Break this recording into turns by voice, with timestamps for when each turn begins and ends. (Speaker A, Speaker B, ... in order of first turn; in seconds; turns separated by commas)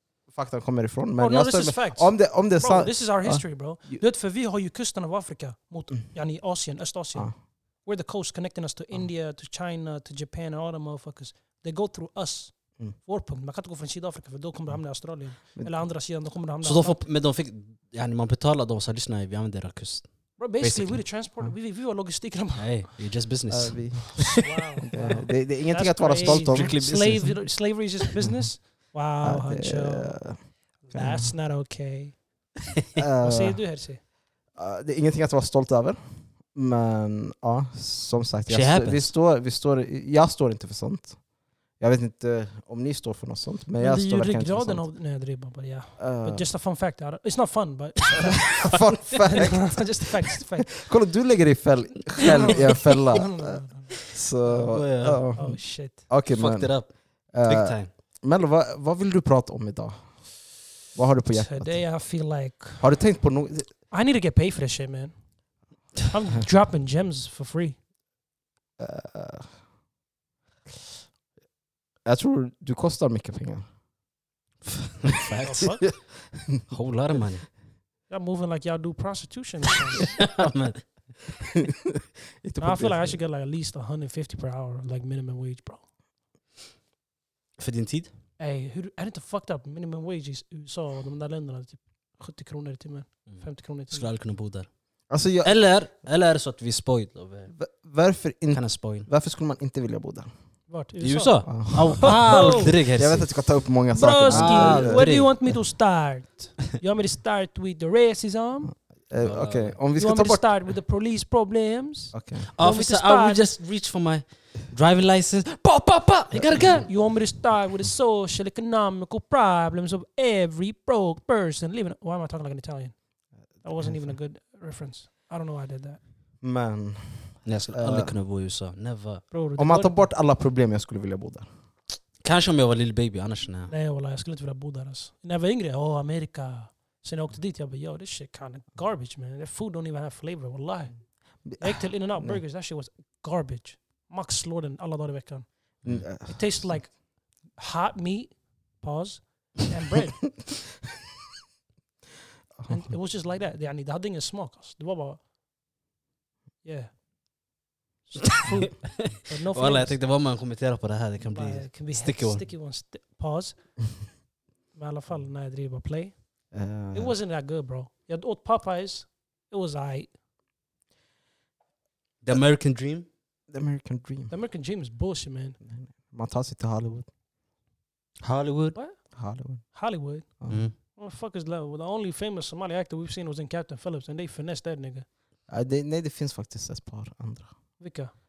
Speaker A: 0.3-4.0, Speaker B: 1.2-17.0, Speaker A: 15.4-15.7, Speaker C: 16.6-21.1, Speaker B: 20.4-22.9, Speaker C: 22.6-24.3, Speaker A: 23.5-26.8, Speaker B: 24.2-32.2, Speaker C: 26.2-27.5, Speaker A: 29.2-31.3, Speaker A: 33.0-33.6, Speaker B: 33.2-34.0, Speaker A: 34.5-36.0, Speaker A: 36.5-41.2, Speaker C: 38.5-39.1, Speaker A: 41.8-44.9, Speaker B: 43.8-48.7, Speaker A: 46.0-46.5, Speaker A: 48.6-50.0, Speaker C: 48.6-49.3, Speaker B: 49.2-50.8, Speaker A: 50.7-60.4, Speaker B: 52.2-54.0, Speaker C: 54.5-55.3, Speaker B: 55.3-56.0, Speaker C: 56.3-57.9, Speaker A: 60.9-61.9, Speaker B: 61.3-62.9, Speaker A: 62.8-63.7, Speaker B: 63.9-65.1, Speaker B: 66.1-67.8, Speaker A: 68.8-69.5, Speaker A: 72.0-73.7, Speaker C: 75.0-77.5, Speaker B: 75.4-75.8, Speaker B: 78.1-80.2, Speaker C: 80.2-80.9, Speaker A: 81.6-83.2, Speaker B: 82.6-85.8, Speaker C: 87.6-88.1, Speaker B: 88.4-94.1, Speaker C: 93.3-94.7, Speaker A: 95.1-95.5, Speaker C: 95.4-97.5, Speaker A: 97.5-100.3, Speaker C: 98.5-99.1, Speaker B: 100.7-102.7, Speaker C: 101.0-103.5, Speaker A: 101.5-105.3, Speaker B: 103.9-108.7, Speaker C: 104.3-105.3, Speaker A: 108.7-110.5, Speaker C: 109.2-109.8, Speaker B: 109.9-113.5, Speaker A: 112.1-112.5, Speaker C: 112.5-116.9, Speaker A: 116.3-116.9, Speaker B: 116.8-123.0, Speaker B: 123.6-126.0, Speaker A: 123.7-124.1, Speaker A: 126.4-128.1, Speaker C: 127.4-129.2, Speaker B: 129.3-130.1, Speaker A: 129.6-131.4, Speaker C: 132.2-133.7, Speaker B: 133.7-145.6, Speaker A: 141.4-142.4, Speaker A: 145.8-146.7, Speaker B: 146.2-150.3, Speaker A: 152.6-152.9, Speaker B: 152.7-155.2, Speaker B: 156.6-156.9, Speaker B: 158.1-160.0, Speaker C: 158.8-162.5, Speaker B: 161.2-163.9, Speaker B: 164.7-170.1, Speaker A: 166.5-167.1, Speaker C: 172.2-173.1, Speaker A: 173.5-174.3, Speaker B: 174.3-175.6, Speaker A: 175.6-177.1, Speaker C: 178.2-178.8, Speaker B: 178.7-179.1, Speaker A: 179.1-179.7, Speaker B: 179.6-185.1, Speaker A: 180.4-180.7, Speaker C: 180.5-180.7, Speaker A: 185.5-187.5, Speaker B: 187.8-188.1